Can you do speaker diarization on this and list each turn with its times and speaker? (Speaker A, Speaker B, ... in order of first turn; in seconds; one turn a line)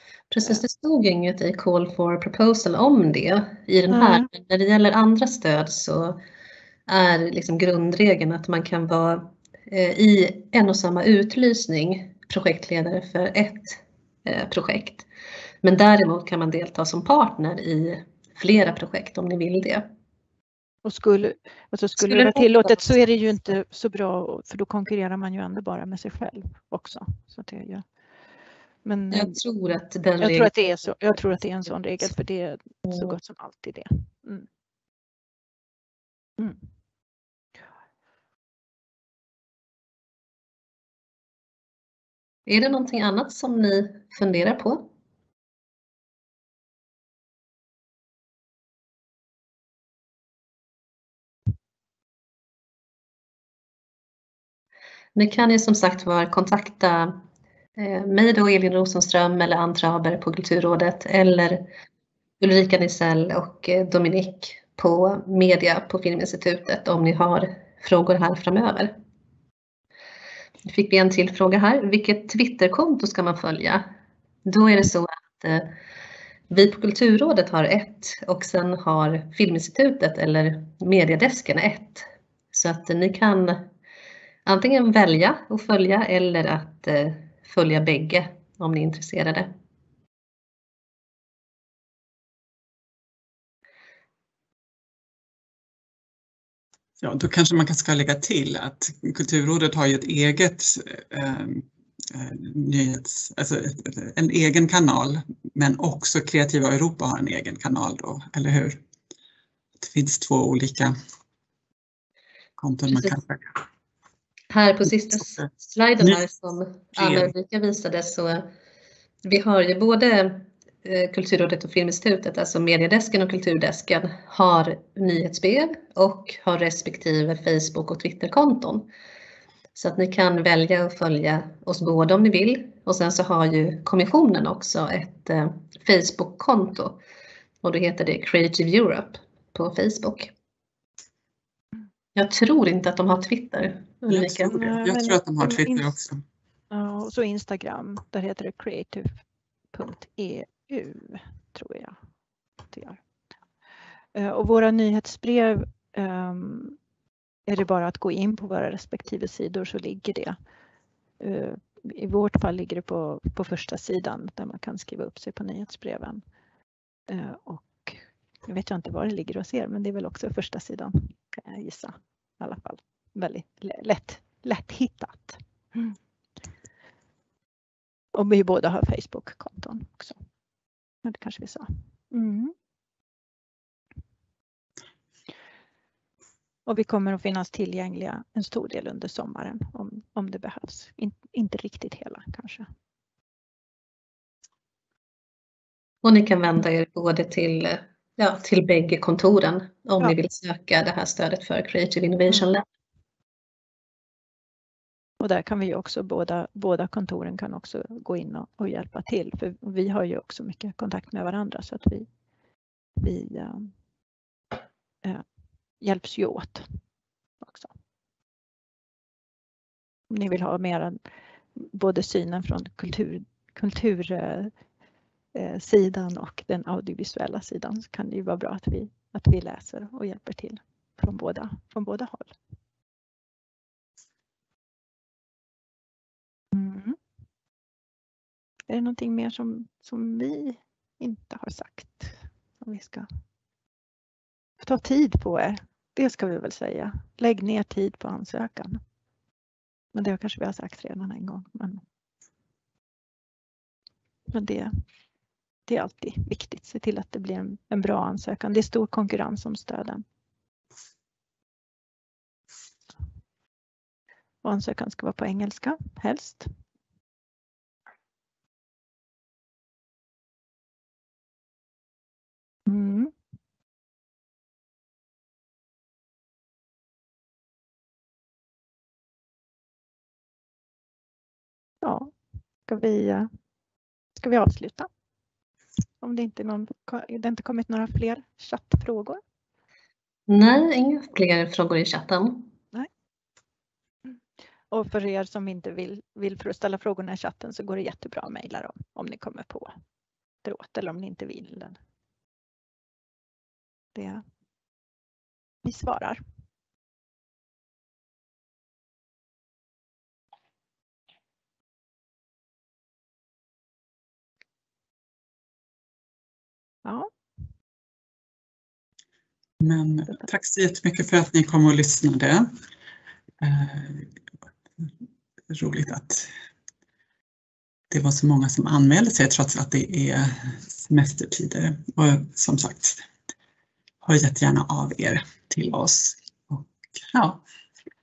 Speaker A: 0.3-6.2
Speaker B: 3.9-4.2
Speaker A: 6.9-15.1
Speaker A: 15.6-19.9
Speaker B: 20.8-27.8
Speaker A: 22.0-22.7
Speaker B: 28.8-29.4
Speaker A: 29.1-30.5
Speaker B: 30.2-34.5
Speaker A: 42.5-44.9
Speaker A: 55.1-57.2
Speaker A: 57.8-61.6
Speaker A: 62.4-69.0
Speaker A: 70.7-73.8
Speaker A: 74.5-75.7
Speaker A: 76.5-83.6
Speaker A: 84.5-89.5
Speaker C: 97.0-108.8
Speaker C: 109.8-110.9
Speaker C: 112.6-113.5
Speaker A: 114.5-118.5
Speaker C: 117.0-117.3
Speaker A: 119.2-128.9
Speaker A: 129.7-137.0
Speaker A: 137.6-140.3
Speaker A: 142.1-144.6
Speaker C: 144.1-146.2
Speaker B: 144.5-145.9
Speaker B: 146.7-149.1
Speaker B: 149.7-152.0
Speaker B: 152.7-153.0
Speaker B: 154.1-156.8
Speaker B: 157.5-160.3
Speaker B: 161.2-166.2
Speaker B: 167.1-176.0
Speaker B: 178.1-180.2
Speaker B: 181.0-182.5
Speaker B: 186.7-192.7
Speaker A: 196.0-202.6
Speaker B: 205.2-212.1
Speaker B: 213.0-213.7
Speaker B: 215.8-216.7
Speaker B: 217.4-217.7
Speaker B: 220.1-221.0
Speaker B: 221.5-224.5
Speaker B: 225.3-232.3
Speaker B: 236.5-237.0
Speaker B: 238.7-243.1
Speaker B: 244.6-248.8
Speaker B: 249.9-251.8
Speaker B: 254.3-254.7
Speaker B: 255.7-260.0
Speaker B: 264.4-266.5
Speaker B: 272.6-273.1
Speaker B: 281.8-282.1
Speaker B: 282.7-283.3
Speaker B: 284.2-284.9
Speaker B: 286.0-289.2
Speaker A: 290.3-292.5
Speaker B: 294.7-299.7
Speaker B: 300.4-301.8
Speaker B: 303.9-304.2
Speaker B: 305.6-306.2
Speaker B: 316.8-317.1
Speaker C: 319.6-322.5
Speaker C: 323.4-324.1
Speaker C: 325.5-326.3
Speaker C: 327.9-333.0
Speaker C: 334.0-337.4